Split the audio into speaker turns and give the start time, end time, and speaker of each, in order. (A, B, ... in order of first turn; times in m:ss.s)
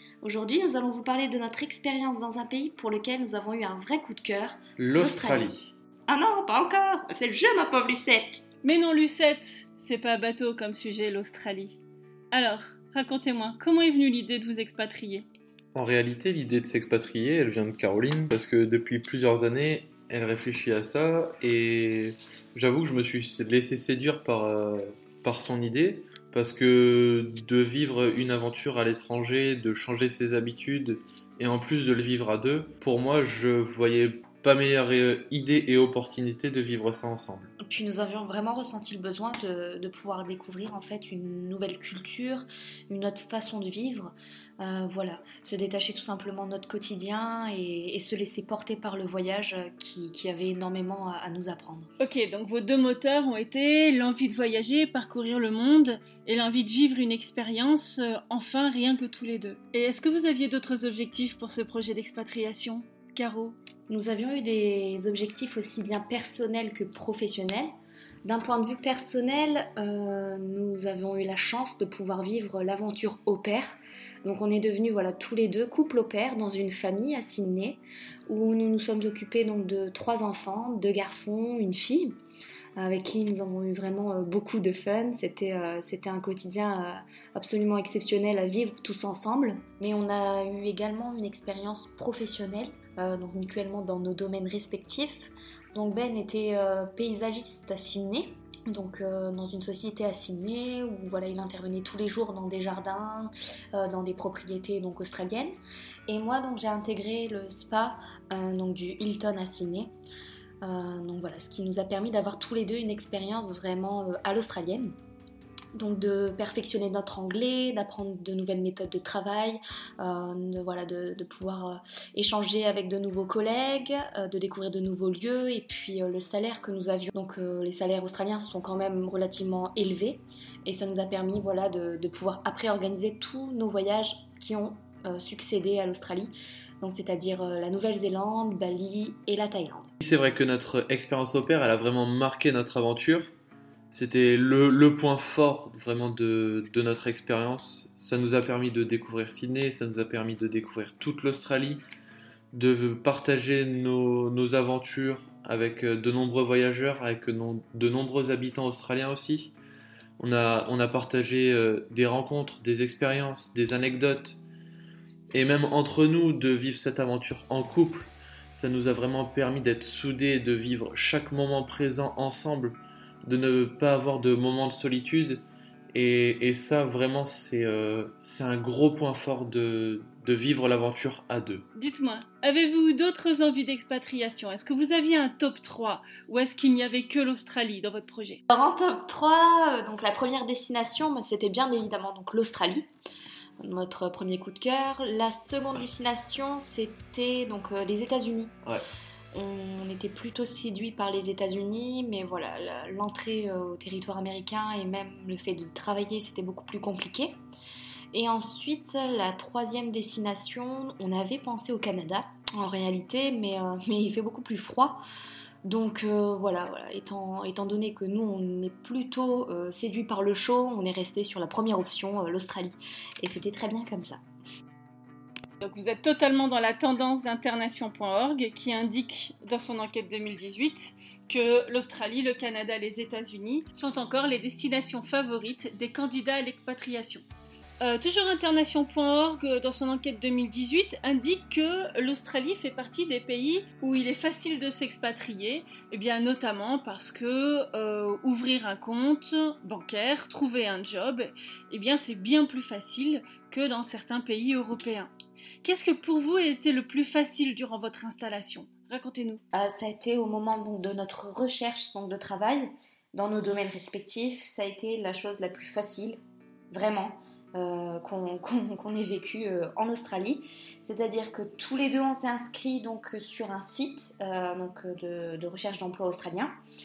0:00.2-0:08.4 A
0:04.8-0:05.2 B
0:08.6-0:11.8 C
0:12.3-0:15.3 C
0:15.7-0:37.5 B
0:37.6-0:51.9 A
0:52.0-1:03.6 C
1:03.9-1:07.7 A
1:08.2-1:22.2 A
1:22.8-1:45.6 A
1:46.1-1:49.9 A
1:50.6-1:54.9 A
1:55.7-2:19.9 A
2:20.0-2:23.3 B
2:23.9-2:31.8 B
2:32.5-2:39.5 B
2:40.2-2:44.4 B
2:45.3-3:01.6 B
3:01.7-3:08.4 C
3:08.5-3:12.8 A
3:13.6-3:18.5 A
3:19.3-3:27.4 A
3:28.1-3:35.0 A
3:35.6-3:44.2 A
3:45.6-3:57.2 C
3:57.8-4:15.1 C
4:15.6-4:19.4 C
4:19.5-4:36.5 A